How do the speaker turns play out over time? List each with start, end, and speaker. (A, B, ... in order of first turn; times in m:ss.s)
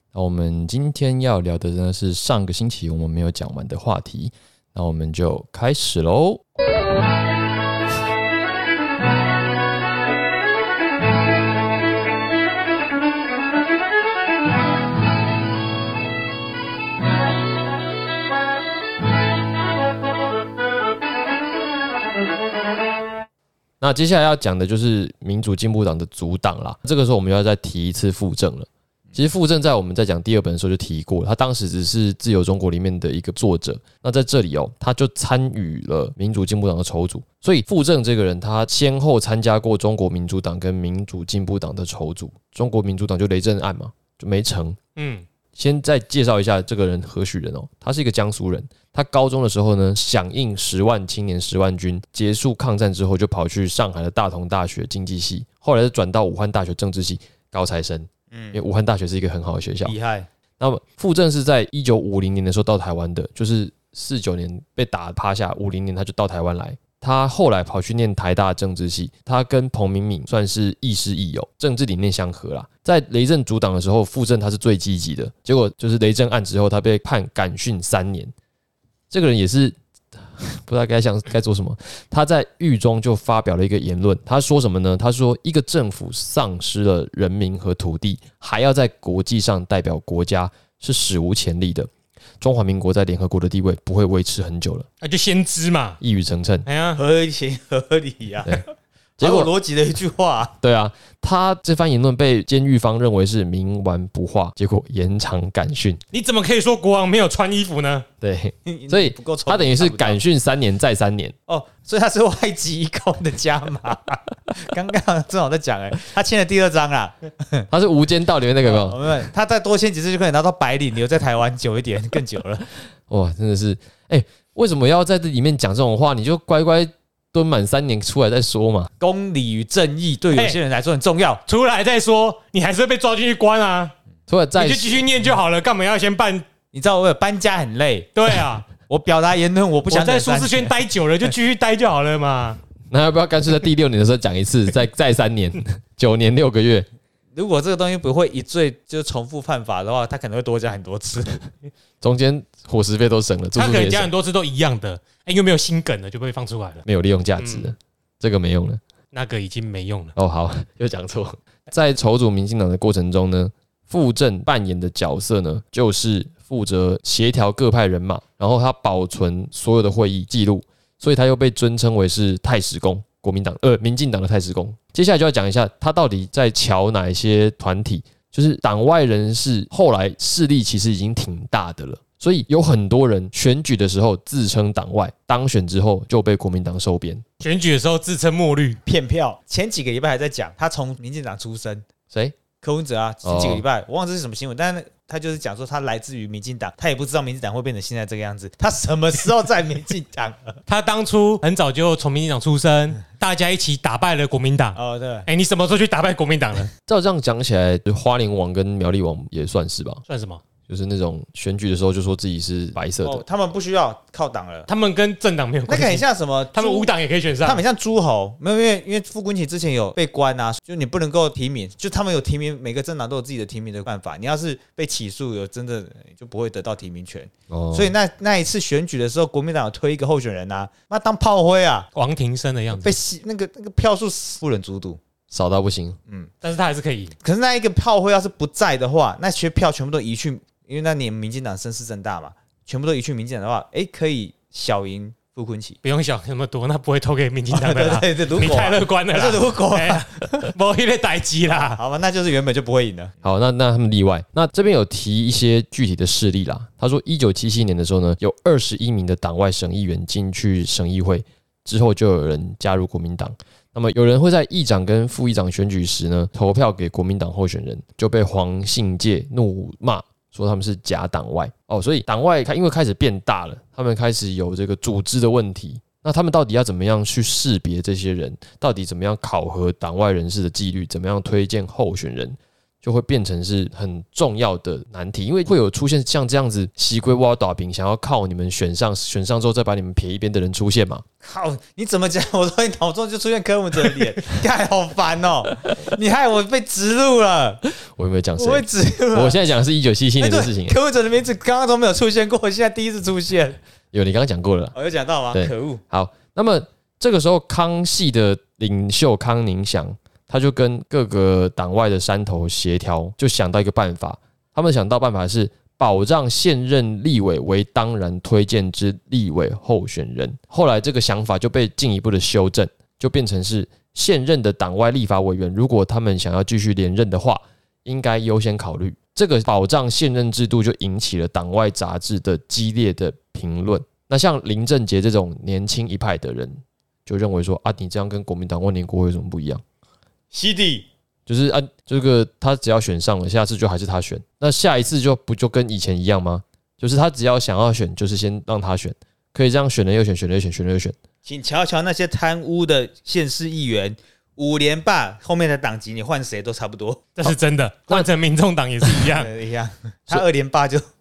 0:00.1-0:06.4 A
0:23.8-0:44.8 A
0:45.0-0:45.2 B
0:45.6-0:59.9 A
0:58.3-0:58.6 C
0:59.8-1:00.3 C
1:00.6-1:18.3 A
1:19.1-1:34.9 A
1:35.0-1:36.0 B
1:36.0-1:36.7 A
1:36.7-1:37.0 B
1:36.9-1:40.6 C
1:39.2-1:39.5 A
1:40.6-1:46.0 A
1:46.1-1:48.0 B
1:48.2-1:51.3 A
1:48.7-1:50.2 C
1:51.5-1:57.7 C
1:57.7-1:59.0 A
1:58.6-2:02.6 C
2:03.1-2:08.9 A
2:09.0-2:11.4 C
2:10.3-2:10.6 B
2:11.5-2:13.9 B
2:14.3-2:15.0 A
2:14.6-2:16.5 B
2:16.7-2:20.7 C
2:18.2-2:18.7 B
2:19.9-2:22.6 B
2:22.9-2:26.9 A
2:27.3-2:31.5 C
2:32.0-2:34.1 A
2:33.6-2:36.8 B
2:36.9-2:38.8 A
2:37.4-2:37.7 B
2:39.1-2:40.2 B
2:40.2-3:07.2 A
3:07.4-3:08.8 B
3:08.9-3:11.8 C
3:12.6-3:20.6 C
3:13.2-3:13.6 A
3:20.7-3:26.7 B
3:24.8-3:25.3 C
3:26.9-3:30.0 A
3:30.1-3:30.4 B
3:30.7-3:33.2 A
3:33.0-3:34.7 C
3:34.7-3:37.6 B
3:35.7-3:36.9 C
3:37.4-3:51.9 C
3:47.5-3:47.9 A
3:52.0-3:53.0 B
3:52.8-3:55.0 C
3:55.3-3:56.0 A
3:56.4-3:57.1 B
3:57.2-4:05.8 C
4:05.8-4:11.8 B
4:07.5-4:10.5 C
4:11.5-4:13.2 C
4:13.2-4:51.0 A
4:51.2-4:57.6 C
4:57.8-5:00.8 A
4:58.4-4:59.4 C
5:00.2-5:03.6 C
5:03.9-5:04.7 A
5:04.7-5:05.8 C
5:05.3-5:39.6 A
5:40.3-5:40.9 C
5:41.2-5:51.0 A
5:51.2-5:57.3 C
5:57.2-5:59.3 B
5:58.9-6:00.8 C